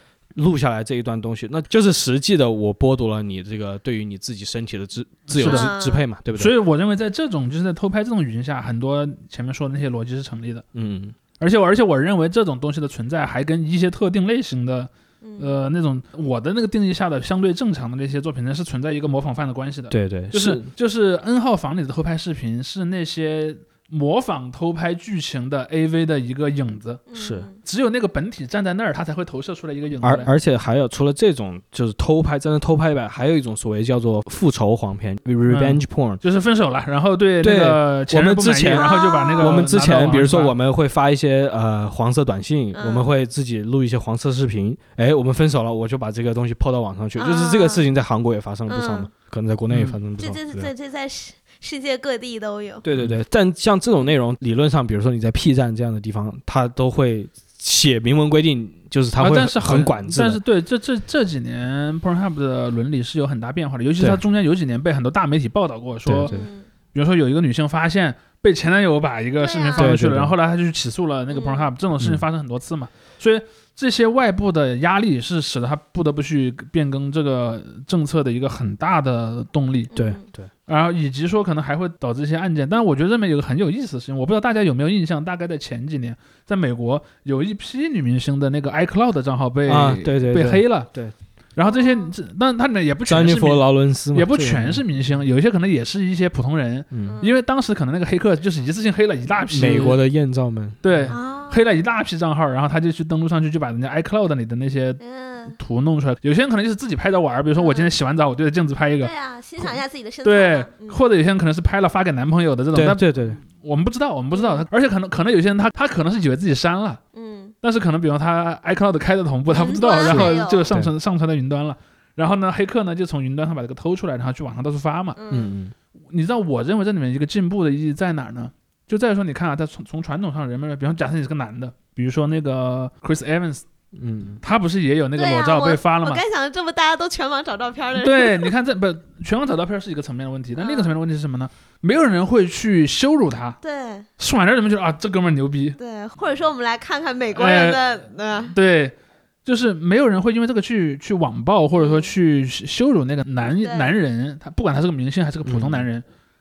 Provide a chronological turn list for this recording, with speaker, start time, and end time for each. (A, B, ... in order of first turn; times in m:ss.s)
0:00.4-0:06.5 A
0:05.3-0:05.7 B
0:05.4-0:06.0 C
0:06.4-0:10.6 B
0:10.8-0:11.2 A
0:11.4-0:27.0 B
0:15.2-0:15.6 C
0:19.9-0:20.7 A
0:27.1-0:27.6 C
0:27.2-0:27.5 A
0:27.6-0:30.3 B
0:30.0-0:36.2 A
0:35.5-0:40.5 B
0:37.4-0:50.7 A
0:38.7-0:39.6 C
0:42.7-0:43.1 C
0:47.2-0:47.8 C
0:48.7-0:49.1 C
0:49.7-0:50.0 B
0:50.2-0:52.8 C
0:52.8-1:00.4 A
0:59.2-1:06.3 B
1:06.0-1:06.5 A
1:06.2-1:06.7 C
1:06.9-1:19.9 B
1:09.4-1:09.9 C
1:09.8-1:10.3 A
1:11.3-1:11.7 C
1:19.9-1:20.2 C
1:20.0-1:20.5 A
1:20.7-1:30.9 B
1:29.7-1:31.1 A
1:31.6-1:40.0 B
1:31.7-1:32.1 C
1:33.1-1:34.8 A
1:37.0-1:37.4 C
1:39.5-1:41.1 A
1:40.8-1:45.0 B
1:41.1-1:41.7 C
1:45.0-1:45.6 C
1:45.5-1:57.0 B
1:47.6-1:47.9 C
1:49.0-1:51.0 C
1:52.7-1:53.4 A
1:54.3-1:54.6 C
1:57.1-1:57.5 C
1:57.6-2:05.2 B
1:59.5-2:00.7 C
2:00.1-2:00.9 A
2:05.2-2:05.5 C
2:05.3-2:05.7 A
2:06.1-2:13.6 B
2:14.0-2:14.4 A
2:14.4-2:16.2 B
2:15.2-2:18.5 C
2:18.0-2:23.6 B
2:20.6-2:20.9 C
2:23.6-2:24.1 C
2:24.2-2:25.8 B
2:25.8-2:28.6 C
2:27.4-2:27.8 B
2:28.5-2:36.0 B
2:31.7-2:32.1 C
2:33.4-2:34.0 C
2:35.4-2:35.9 A